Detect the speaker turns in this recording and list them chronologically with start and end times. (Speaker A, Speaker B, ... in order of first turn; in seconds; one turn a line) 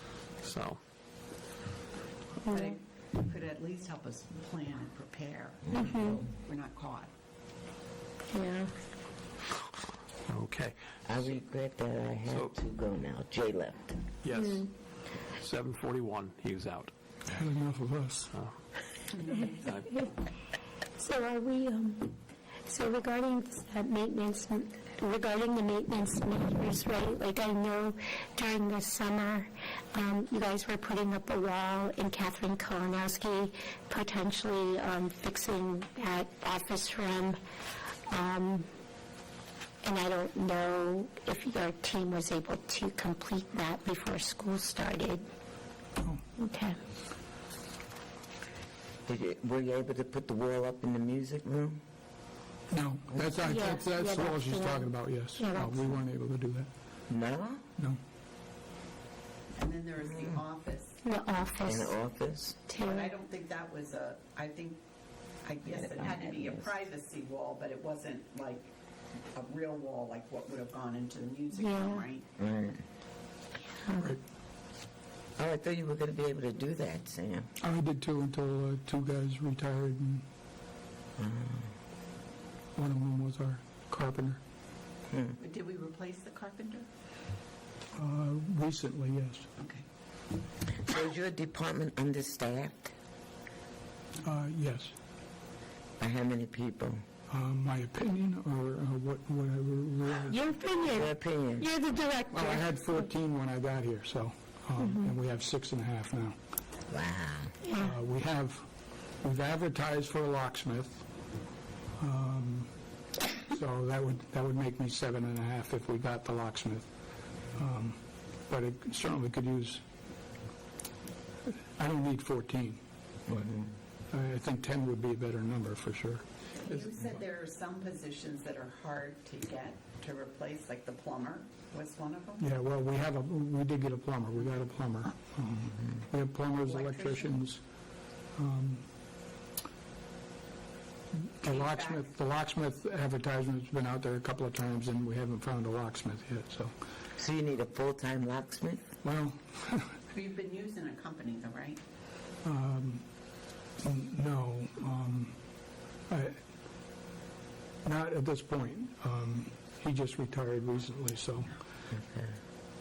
Speaker A: 0.4-0.8
Speaker B: 2.5-2.7
Speaker C: 2.5-7.1
Speaker D: 5.7-6.2
Speaker B: 5.8-6.1
Speaker B: 8.3-8.7
Speaker A: 10.3-10.7
Speaker D: 11.1-14.0
Speaker A: 12.2-12.5
Speaker A: 14.2-14.7
Speaker B: 14.3-14.7
Speaker A: 15.3-16.9
Speaker E: 17.3-18.3
Speaker C: 19.1-19.8
Speaker A: 19.4-20.1
Speaker B: 21.0-37.4
Speaker B: 38.1-38.6
Speaker B: 39.8-45.2
Speaker B: 46.4-46.8
Speaker D: 49.0-51.8
Speaker E: 52.7-56.7
Speaker B: 53.4-55.9
Speaker D: 57.1-57.6
Speaker C: 59.5-61.0
Speaker D: 60.1-60.4
Speaker B: 61.0-61.9
Speaker D: 61.6-62.6
Speaker B: 62.7-63.1
Speaker C: 62.8-64.8
Speaker C: 65.4-68.7
Speaker D: 65.7-66.7
Speaker C: 69.3-72.3
Speaker B: 71.5-72.1
Speaker D: 72.4-72.8
Speaker B: 73.8-74.1
Speaker D: 75.4-77.5
Speaker E: 77.6-80.2
Speaker D: 81.2-81.7
Speaker E: 82.8-84.4
Speaker D: 85.1-85.3
Speaker C: 85.4-86.9
Speaker E: 87.9-89.5
Speaker C: 89.6-89.8
Speaker D: 90.8-92.9
Speaker E: 94.2-94.9
Speaker D: 96.0-97.0
Speaker E: 97.3-100.4
Speaker B: 100.2-103.0
Speaker D: 100.8-101.7
Speaker E: 102.3-106.4
Speaker B: 104.8-105.1
Speaker D: 106.9-107.5
Speaker B: 107.6-107.9
Speaker E: 107.8-108.7
Speaker E: 109.2-111.0
Speaker E: 112.0-112.7
Speaker E: 113.5-116.9
Speaker E: 117.5-119.8
Speaker E: 121.5-123.5
Speaker E: 124.1-126.9
Speaker C: 126.5-132.5
Speaker E: 132.4-137.6
Speaker C: 136.5-137.4
Speaker E: 138.3-138.8
Speaker E: 141.2-146.7
Speaker C: 141.4-142.1
Speaker D: 147.2-148.8
Speaker E: 149.0-150.0
Speaker C: 150.1-151.8
Speaker E: 152.4-153.0
Speaker E: 153.8-155.4
Speaker E: 156.1-156.4
Speaker E: 157.8-161.5
Speaker D: 161.9-162.3